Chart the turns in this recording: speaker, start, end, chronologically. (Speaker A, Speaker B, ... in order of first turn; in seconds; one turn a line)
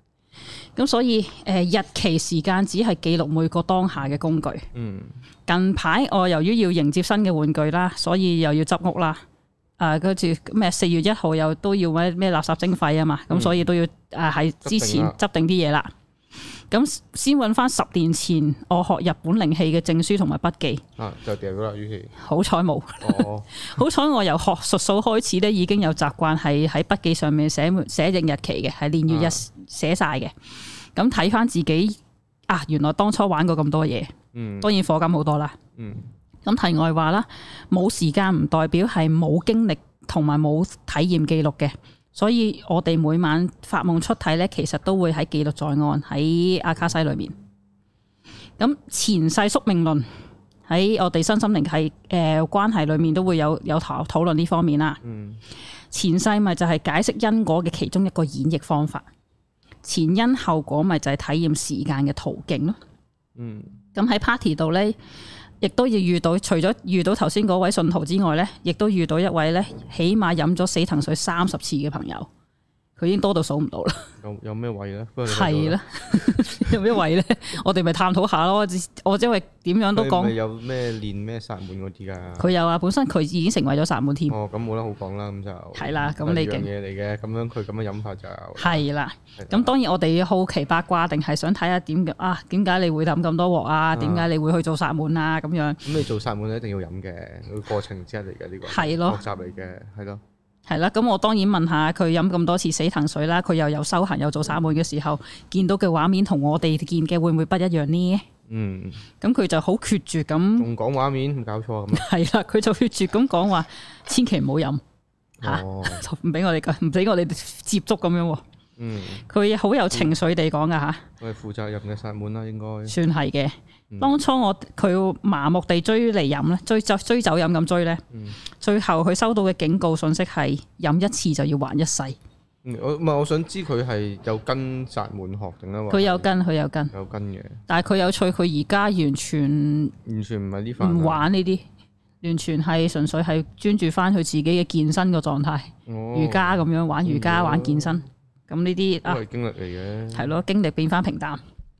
Speaker A: 0.8-4.7
Speaker B: 4.7-5.2
Speaker A: 5.5-9.2
Speaker A: 9.8-15.9
Speaker B: 13.3-13.6
Speaker B: 14.6-15.2
Speaker A: 16.7-20.8
Speaker B: 21.0-22.1
Speaker A: 22.2-30.3
Speaker B: 23.0-23.5
Speaker B: 29.1-29.4
Speaker A: 30.9-35.6
Speaker B: 34.3-34.7
Speaker B: 35.8-36.1
Speaker A: 36.4-47.3
Speaker A: 48.6-50.1
Speaker A: 50.7-55.0
Speaker B: 55.0-55.4
Speaker A: 55.9-59.1
Speaker A: 59.8-62.8
Speaker B: 63.4-63.8
Speaker A: 63.9-65.0
Speaker A: 65.6-72.3
Speaker A: 73.0-74.0
Speaker B: 74.2-76.7
Speaker A: 75.3-80.3
Speaker B: 79.9-82.5
Speaker A: 82.4-84.4
Speaker B: 84.3-88.8
Speaker A: 85.8-86.7
Speaker A: 88.6-95.8
Speaker B: 89.4-89.7
Speaker B: 93.9-94.3
Speaker B: 95.8-100.2
Speaker A: 98.7-99.2
Speaker A: 100.7-108.2
Speaker B: 108.5-109.0
Speaker A: 109.2-110.7
Speaker B: 110.6-112.0
Speaker A: 111.9-114.8
Speaker B: 115.4-116.0
Speaker A: 115.4-118.4
Speaker B: 118.8-119.2
Speaker A: 119.3-121.0
Speaker B: 121.2-123.0
Speaker A: 122.9-132.2
Speaker B: 123.9-124.2
Speaker B: 128.1-128.4
Speaker B: 132.6-136.3
Speaker A: 135.9-136.9
Speaker B: 136.9-137.6
Speaker A: 137.7-139.9
Speaker B: 140.0-141.2
Speaker A: 140.8-141.6
Speaker A: 142.2-149.2
Speaker B: 145.8-148.1
Speaker B: 149.0-150.4
Speaker A: 150.1-151.4